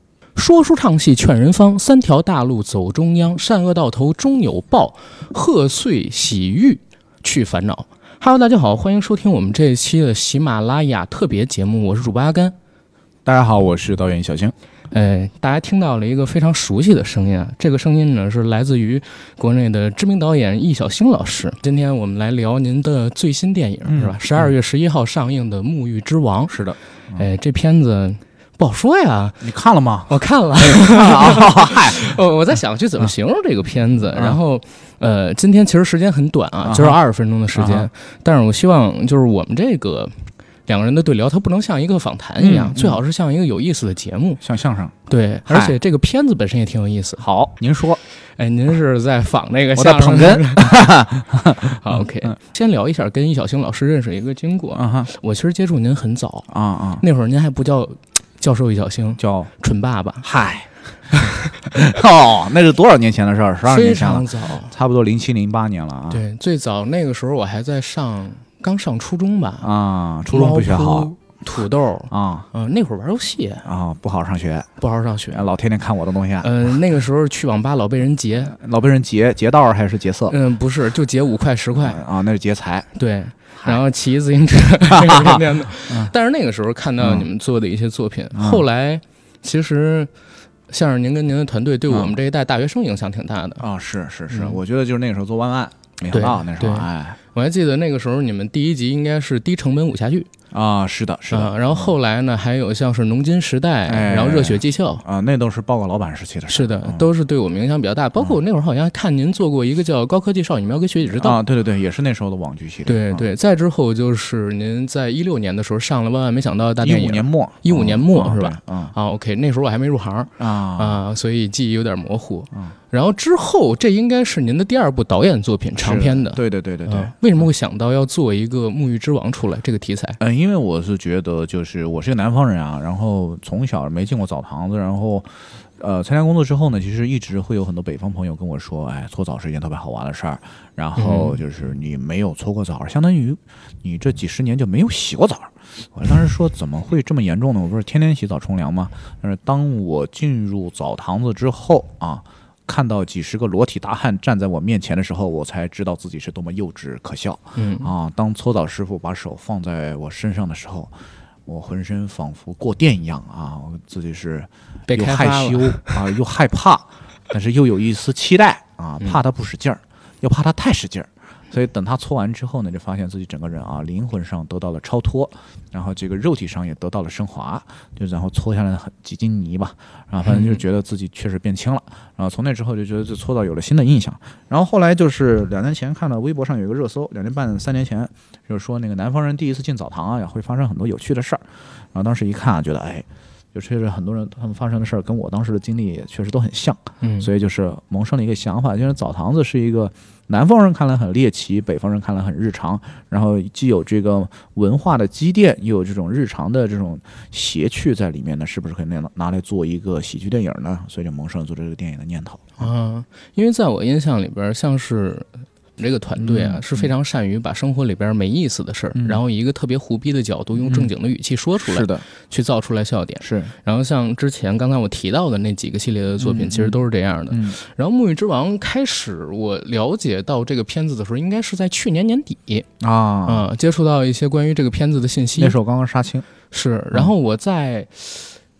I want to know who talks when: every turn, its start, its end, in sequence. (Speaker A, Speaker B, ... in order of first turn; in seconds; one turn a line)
Speaker A: 0.3-12.5
Speaker B: 13.2-14.5
Speaker A: 14.9-26.6
Speaker B: 23.9-24.2
Speaker B: 26.5-27.3
Speaker A: 27.1-29.5
Speaker B: 29.4-32.0
Speaker A: 30.1-44.4
Speaker B: 34.1-34.4
Speaker B: 36.6-37.0
Speaker B: 37.5-37.9
Speaker B: 42.4-43.0
Speaker B: 44.4-45.0
Speaker A: 45.1-47.2
Speaker B: 45.5-45.8
Speaker B: 47.2-48.0
Speaker A: 48.4-50.9
Speaker B: 49.7-52.3
Speaker A: 51.6-56.5
Speaker B: 54.7-55.1
Speaker B: 56.5-57.0
Speaker A: 57.0-60.3
Speaker B: 59.2-59.5
Speaker B: 60.2-66.2
Speaker A: 63.6-64.7
Speaker A: 66.1-69.7
Speaker B: 69.6-71.1
Speaker A: 70.3-73.7
Speaker B: 72.1-72.5
Speaker B: 73.6-74.7
Speaker A: 74.8-75.5
Speaker B: 75.3-76.7
Speaker A: 76.4-78.5
Speaker B: 78.4-80.3
Speaker A: 80.3-82.0
Speaker B: 81.8-82.9
Speaker A: 82.9-90.1
Speaker B: 83.5-83.8
Speaker B: 84.9-86.1
Speaker B: 87.0-87.3
Speaker B: 88.3-88.6
Speaker A: 90.7-93.6
Speaker B: 91.9-92.2
Speaker B: 93.6-97.2
Speaker A: 94.3-94.6
Speaker A: 96.1-100.3
Speaker B: 100.5-101.9
Speaker A: 101.3-105.0
Speaker B: 103.9-107.1
Speaker A: 106.5-111.4
Speaker B: 111.1-113.3
Speaker A: 112.8-130.2
Speaker B: 116.8-119.0
Speaker B: 120.4-121.0
Speaker B: 125.8-127.5
Speaker B: 130.2-160.9
Speaker A: 141.0-141.4
Speaker A: 157.6-157.9
Speaker B: 161.5-212.7
Speaker A: 164.9-165.9
Speaker A: 180.2-180.6
Speaker A: 197.0-197.3
Speaker A: 212.6-232.7
Speaker B: 216.2-216.9
Speaker B: 218.9-219.2
Speaker B: 220.6-220.9
Speaker B: 221.6-222.1
Speaker B: 223.2-223.5
Speaker B: 226.2-227.6
Speaker B: 232.8-233.5
Speaker A: 233.2-235.6
Speaker B: 235.4-236.2
Speaker A: 236.5-238.4